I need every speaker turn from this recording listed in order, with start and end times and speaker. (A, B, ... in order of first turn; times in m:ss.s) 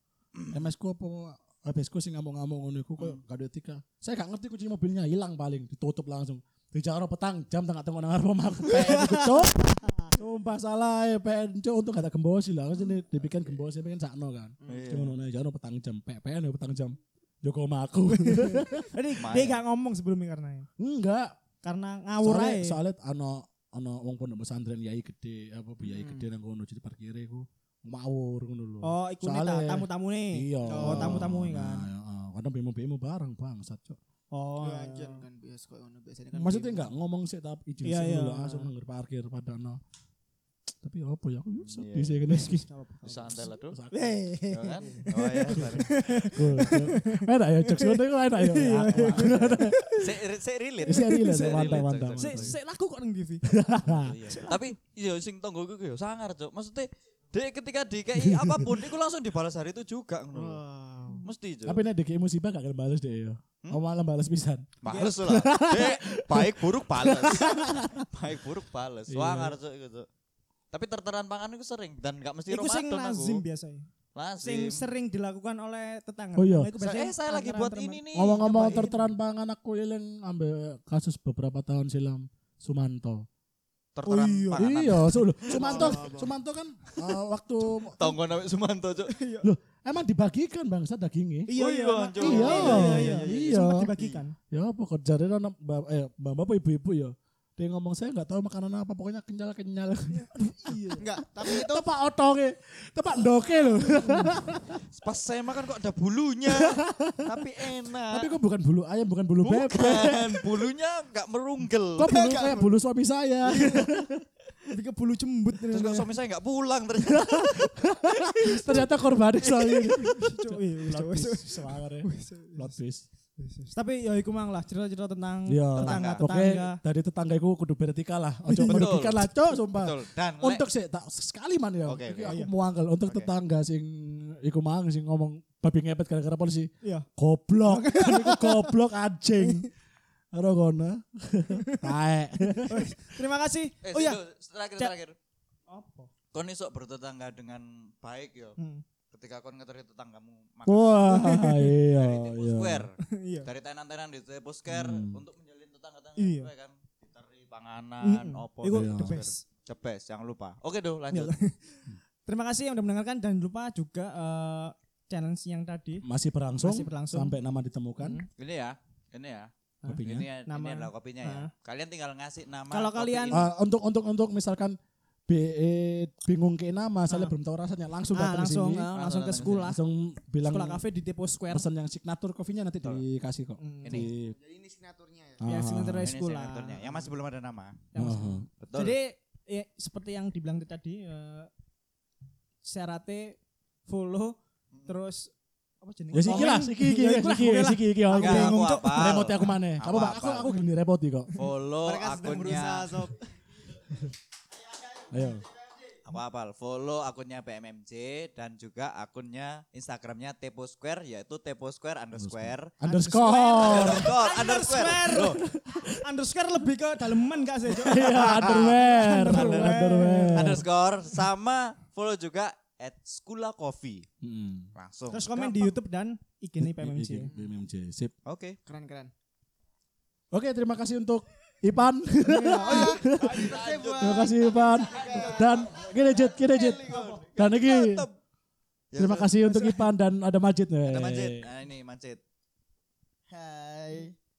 0:00.5-0:18.9 A
0:08.7-0:10.1 B
0:14.7-0:15.2 C
0:18.2-0:20.7 B
0:19.2-0:19.6 C
0:20.8-0:21.4 A
0:21.6-0:22.8 B
0:22.2-0:34.0 A
0:25.8-0:26.3 D
0:28.8-0:31.9 B
0:30.7-0:31.3 D
0:34.3-0:35.2 B
0:34.6-0:36.9 D
0:36.3-0:39.8 A
0:37.8-0:38.7 B
0:40.8-0:44.2 A
0:41.6-0:42.2 C
0:42.3-0:50.1 B
0:43.0-0:43.7 C
0:44.5-0:46.2 C
0:45.5-0:49.8 A
0:49.1-0:52.6 C
0:50.9-0:52.5 A
0:50.9-0:53.5 B
0:53.4-0:54.2 A
0:53.9-1:00.6 C
0:54.3-0:54.6 B
0:58.2-0:58.7 A
1:00.3-1:01.3 D
1:01.2-1:01.8 C
1:01.7-1:04.7 A
1:04.8-1:10.1 C
1:04.9-1:05.1 B
1:05.2-1:08.1 A
1:09.1-1:09.6 A
1:10.7-1:13.4 C
1:12.5-1:13.9 B
1:14.2-1:14.8 C
1:14.4-1:19.1 B
1:16.4-1:16.7 A
1:16.8-1:18.5 C
1:18.1-1:23.3 A
1:24.0-1:26.1 C
1:24.1-1:24.7 B
1:24.5-1:28.1 A
1:25.5-1:26.3 D
1:28.0-1:29.1 C
1:29.1-1:29.5 B
1:29.4-1:31.5 A
1:31.5-1:34.4 B
1:31.6-1:34.2 C
1:32.2-1:33.9 A
1:34.5-1:44.8 A
1:40.1-1:41.0 B
1:41.0-1:41.9 D
1:44.0-1:44.3 B
1:44.9-1:48.3 C
1:46.5-1:47.4 A
1:48.1-1:50.5 A
1:49.4-1:52.2 C
1:52.0-1:54.2 A
1:52.0-1:52.7 D
1:54.7-1:56.1 B
1:55.7-1:57.7 C
1:57.0-2:03.0 A
1:58.4-1:58.8 C
1:59.4-2:00.1 C
2:00.0-2:02.8 B
2:03.4-2:06.8 B
2:05.5-2:19.7 A
2:05.8-2:06.2 C
2:08.5-2:08.9 B
2:08.6-2:10.7 C
2:11.9-2:12.4 C
2:13.1-2:13.3 C
2:17.7-2:18.7 B
2:19.4-2:19.7 B
2:20.3-2:23.0 A
2:21.6-2:21.9 B
2:22.6-2:24.2 B
2:23.8-2:25.2 C
2:25.7-2:26.1 B
2:26.3-2:28.6 C
2:28.6-2:28.8 B
2:29.1-2:31.4 C
2:30.6-2:32.9 A
2:31.1-2:31.7 B
2:32.0-2:41.4 C
2:33.1-2:33.5 B
2:34.7-2:35.2 A
2:36.2-2:36.5 B
2:38.0-2:39.4 B
2:38.7-2:39.2 A
2:41.1-2:41.5 B
2:42.3-2:46.0 B
2:46.0-2:48.2 A
2:46.6-2:47.3 B
2:48.0-2:48.3 B
2:48.4-2:49.5 C
2:49.8-2:51.5 B
2:49.8-2:50.3 A
2:50.0-2:53.5 C
2:52.7-2:53.5 B
2:53.3-2:58.9 A
2:58.2-2:59.8 B
2:58.9-2:59.7 C
2:59.6-3:00.8 A
3:00.4-3:01.7 B
3:01.5-3:04.4 A
3:03.6-3:04.1 B
3:03.8-3:04.1 C
3:04.2-3:05.4 D
3:05.4-3:06.1 A
3:05.4-3:07.0 B
3:06.0-3:07.9 C
3:07.9-3:11.5 B
3:08.0-3:08.4 A
3:08.6-3:09.0 C
3:12.6-3:19.3 B
3:14.7-3:15.0 C
3:16.1-3:21.3 A
3:16.1-3:16.6 C
3:18.1-3:20.5 C
3:21.4-3:23.1 C
3:21.8-3:23.2 D
3:25.1-3:25.4 A
3:26.0-3:32.7 C
3:32.2-3:34.2 A
3:32.8-3:35.4 B
3:33.6-3:35.4 C
3:35.2-3:36.0 A
3:36.0-3:40.5 B
3:37.7-3:40.7 A
3:37.9-3:44.1 C
3:44.2-3:44.7 A
3:44.8-3:45.7 C
3:45.1-3:47.3 B
3:46.6-3:48.1 A
3:48.2-3:48.6 C
3:48.7-3:49.1 D
3:50.3-3:58.1 A
3:52.2-3:55.7 D
3:52.8-3:55.2 C
3:55.1-3:57.1 E
3:56.5-3:58.2 C
3:58.9-3:59.8 C
3:58.9-4:01.5 A
4:00.8-4:02.2 C
4:03.3-4:04.2 E